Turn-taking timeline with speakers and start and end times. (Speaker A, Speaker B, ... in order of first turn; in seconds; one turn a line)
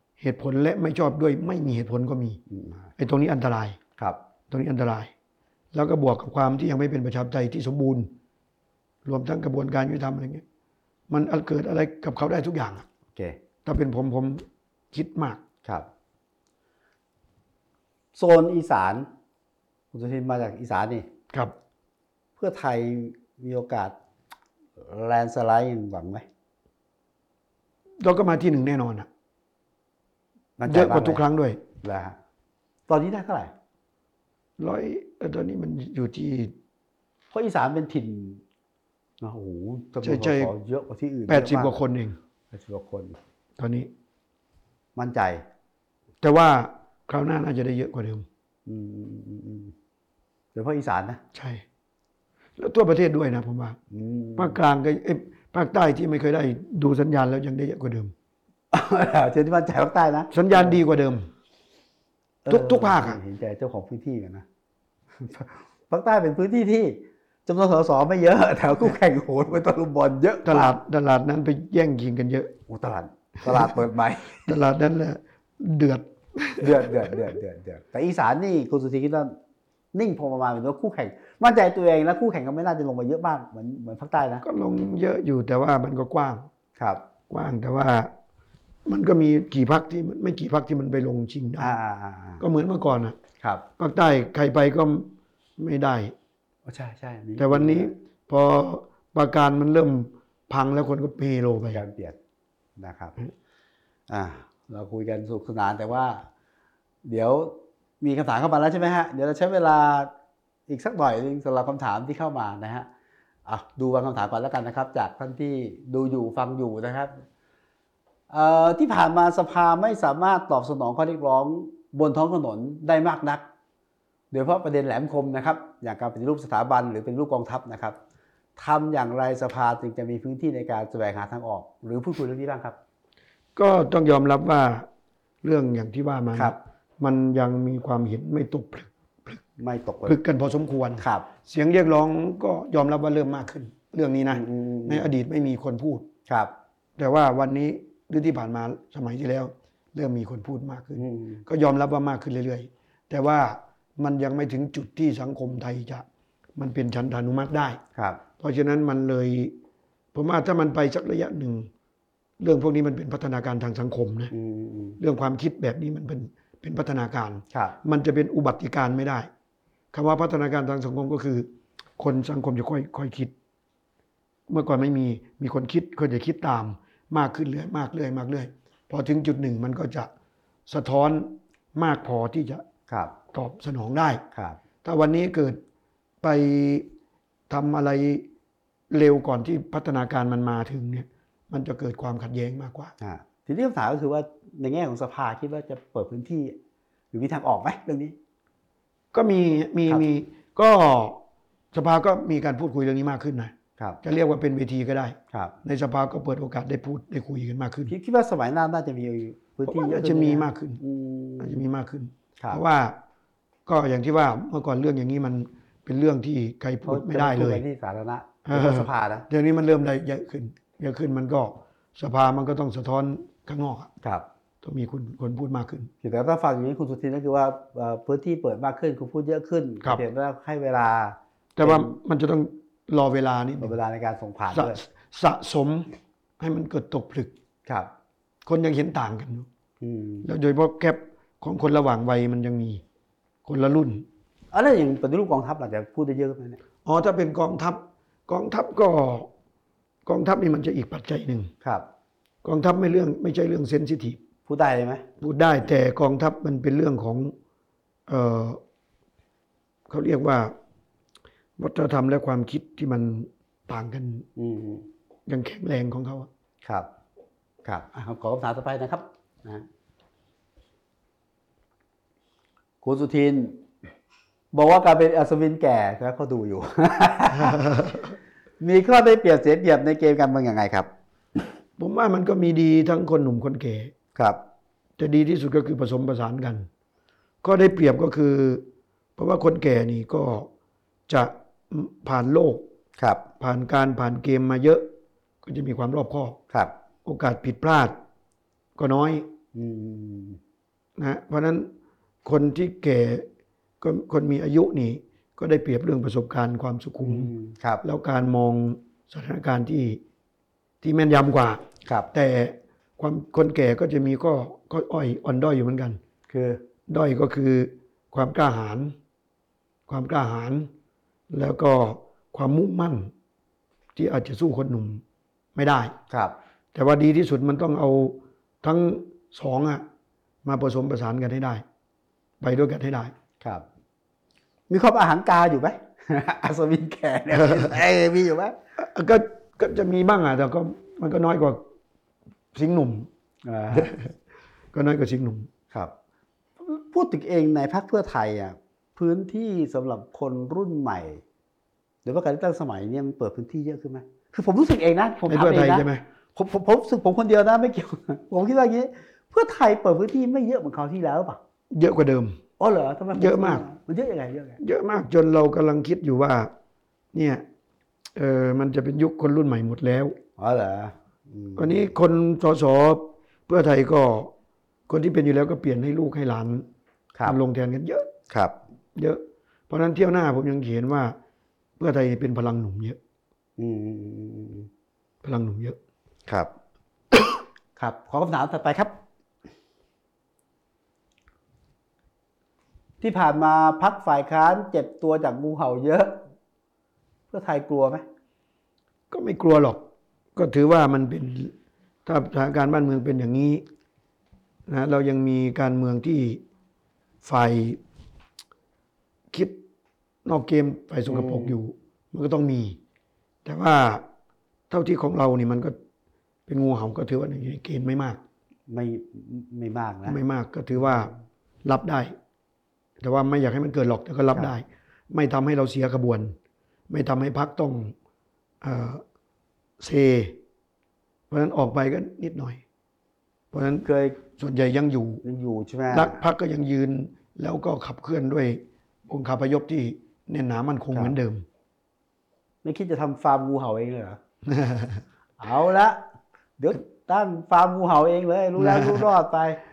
Speaker A: 0.2-2.4
Speaker B: 2.5-2.9
Speaker A: 3.0-3.8
Speaker A: 4.5-5.1
Speaker A: 5.7-8.1
Speaker A: 9.0-10.4
Speaker A: 11.1-12.8
Speaker A: 13.6-15.4
Speaker B: 18.1-19.1
Speaker B: 19.9-21.1
Speaker B: 22.4-23.9
Speaker B: 24.8-26.2
Speaker A: 28.0-29.1
Speaker B: 30.6-31.2
Speaker A: 30.6-31.6
Speaker B: 31.8-32.2
Speaker B: 32.9-33.5
Speaker A: 34.6-36.5
Speaker B: 37.3-38.4
Speaker B: 39.2-41.8
Speaker A: 40.0-40.5
Speaker A: 41.3-42.2
Speaker B: 42.5-43.2
Speaker A: 43.6-43.9
Speaker B: 45.0-45.4
Speaker A: 46.2-48.2
Speaker B: 48.6-49.7
Speaker B: 50.5-51.2
Speaker A: 51.3-51.6
Speaker A: 52.6-53.8
Speaker B: 53.9-54.6
Speaker A: 54.4-58.1
Speaker B: 58.7-60.8
Speaker A: 60.3-61.3
Speaker B: 62.4-64.4
Speaker A: 62.5-63.2
Speaker B: 65.2-70.7
Speaker A: 70.4-72.5
Speaker B: 72.7-74.5
Speaker A: 73.5-73.7
Speaker A: 74.4-77.3
Speaker B: 76.6-79.3
Speaker B: 79.9-84.4
Speaker A: 84.4-86.5
Speaker B: 86.8-87.0
Speaker A: 87.3-88.1
Speaker A: 88.8-91.7
Speaker B: 91.6-92.4
Speaker A: 92.4-93.2
Speaker A: 93.8-96.1
Speaker B: 96.7-97.9
Speaker A: 97.4-101.8
Speaker B: 101.7-102.2
Speaker B: 102.8-103.2
Speaker B: 104.1-106.2
Speaker B: 107.0-110.1
Speaker B: 110.7-112.9
Speaker B: 113.5-117.1
Speaker B: 118.3-123.4
Speaker B: 124.3-128.0
Speaker B: 128.6-132.8
Speaker A: 133.6-134.9
Speaker A: 135.4-139.4
Speaker B: 139.6-140.2
Speaker A: 140.1-146.1
Speaker B: 141.0-141.3
Speaker B: 144.3-145.1
Speaker A: 147.0-156.0
Speaker B: 151.0-151.4
Speaker A: 156.6-157.8
Speaker B: 157.9-158.2
Speaker A: 158.4-159.5
Speaker A: 160.1-161.7
Speaker A: 162.4-164.3
Speaker B: 164.3-165.0
Speaker A: 165.0-169.3
Speaker A: 169.9-173.3
Speaker A: 174.5-180.1
Speaker A: 180.7-182.6
Speaker B: 182.9-183.1
Speaker A: 183.3-184.2
Speaker B: 184.3-184.6
Speaker A: 184.8-185.6
Speaker A: 186.2-186.9
Speaker A: 187.5-188.2
Speaker A: 188.9-192.9
Speaker B: 193.0-196.6
Speaker B: 197.1-198.2
Speaker A: 199.1-201.2
Speaker A: 201.7-207.9
Speaker B: 207.9-211.6
Speaker A: 209.6-210.8
Speaker A: 211.4-213.0
Speaker A: 213.7-217.6
Speaker B: 216.8-219.3
Speaker A: 218.4-223.9
Speaker A: 224.6-225.9
Speaker B: 226.0-231.9
Speaker A: 231.6-233.8
Speaker B: 233.6-234.8
Speaker A: 234.5-235.9
Speaker A: 236.4-237.3
Speaker A: 238.4-239.5
Speaker B: 239.8-240.3
Speaker A: 240.2-242.8
Speaker A: 243.4-244.0
Speaker B: 244.5-246.6
Speaker A: 246.8-249.3
Speaker A: 250.1-251.5
Speaker A: 252.4-254.2
Speaker B: 254.5-255.1
Speaker A: 255.2-257.3
Speaker A: 258.1-258.6
Speaker A: 259.9-260.5
Speaker A: 261.6-264.3
Speaker B: 264.4-264.9
Speaker A: 265.3-266.3
Speaker B: 267.6-269.6
Speaker B: 272.8-273.6
Speaker B: 274.5-277.7
Speaker A: 277.3-278.1
Speaker B: 278.6-280.9
Speaker A: 281.8-283.9
Speaker A: 285.0-286.7
Speaker A: 287.4-288.6
Speaker A: 289.2-290.5
Speaker A: 291.1-292.6
Speaker B: 293.0-293.2
Speaker A: 293.4-294.9
Speaker A: 295.4-296.4
Speaker A: 297.0-297.9
Speaker A: 298.8-299.3
Speaker B: 299.5-300.4
Speaker A: 301.0-301.7
Speaker A: 302.2-303.3
Speaker A: 303.8-307.3
Speaker B: 307.0-307.8
Speaker A: 307.8-310.0
Speaker A: 310.8-311.6
Speaker A: 312.1-316.0
Speaker B: 316.3-316.6
Speaker A: 316.9-318.9
Speaker A: 319.9-320.7
Speaker A: 321.3-323.1
Speaker A: 323.9-325.0
Speaker A: 325.5-325.9
Speaker B: 326.1-326.3
Speaker A: 326.7-329.8
Speaker A: 330.4-331.6
Speaker A: 332.4-333.1
Speaker B: 334.7-338.6
Speaker A: 338.8-341.6
Speaker A: 342.5-343.1
Speaker B: 343.4-343.9
Speaker A: 343.7-344.1
Speaker A: 344.7-345.5
Speaker B: 346.6-351.2
Speaker B: 352.0-361.4
Speaker A: 355.2-356.0
Speaker A: 361.7-362.4
Speaker B: 362.6-364.6
Speaker A: 363.1-363.6
Speaker A: 364.6-366.5
Speaker A: 367.1-367.4
Speaker A: 368.1-370.2
Speaker B: 370.4-371.9
Speaker A: 371.6-374.3
Speaker A: 374.9-376.6
Speaker A: 377.2-378.1
Speaker B: 378.3-378.5
Speaker A: 378.9-381.1
Speaker A: 381.8-383.0
Speaker B: 383.6-384.7
Speaker A: 385.2-385.8
Speaker B: 387.8-388.9
Speaker B: 393.0-396.2
Speaker B: 397.3-398.0
Speaker A: 399.1-399.8
Speaker A: 400.4-401.5
Speaker A: 402.0-403.6
Speaker A: 404.7-406.4
Speaker A: 407.2-407.8
Speaker A: 410.2-412.8
Speaker B: 411.1-411.6
Speaker A: 413.4-414.0
Speaker A: 414.7-415.7
Speaker A: 416.5-418.2
Speaker B: 418.7-420.2
Speaker A: 420.1-421.1
Speaker A: 421.6-422.1
Speaker A: 423.0-426.4
Speaker A: 426.9-427.9
Speaker A: 428.6-429.0
Speaker A: 429.8-430.4
Speaker A: 431.3-432.6
Speaker A: 433.5-435.2
Speaker B: 433.8-434.2
Speaker B: 435.2-436.2
Speaker A: 435.9-441.4
Speaker B: 442.6-444.2
Speaker A: 444.4-445.0
Speaker B: 445.4-446.0
Speaker B: 446.6-449.6
Speaker A: 448.6-449.1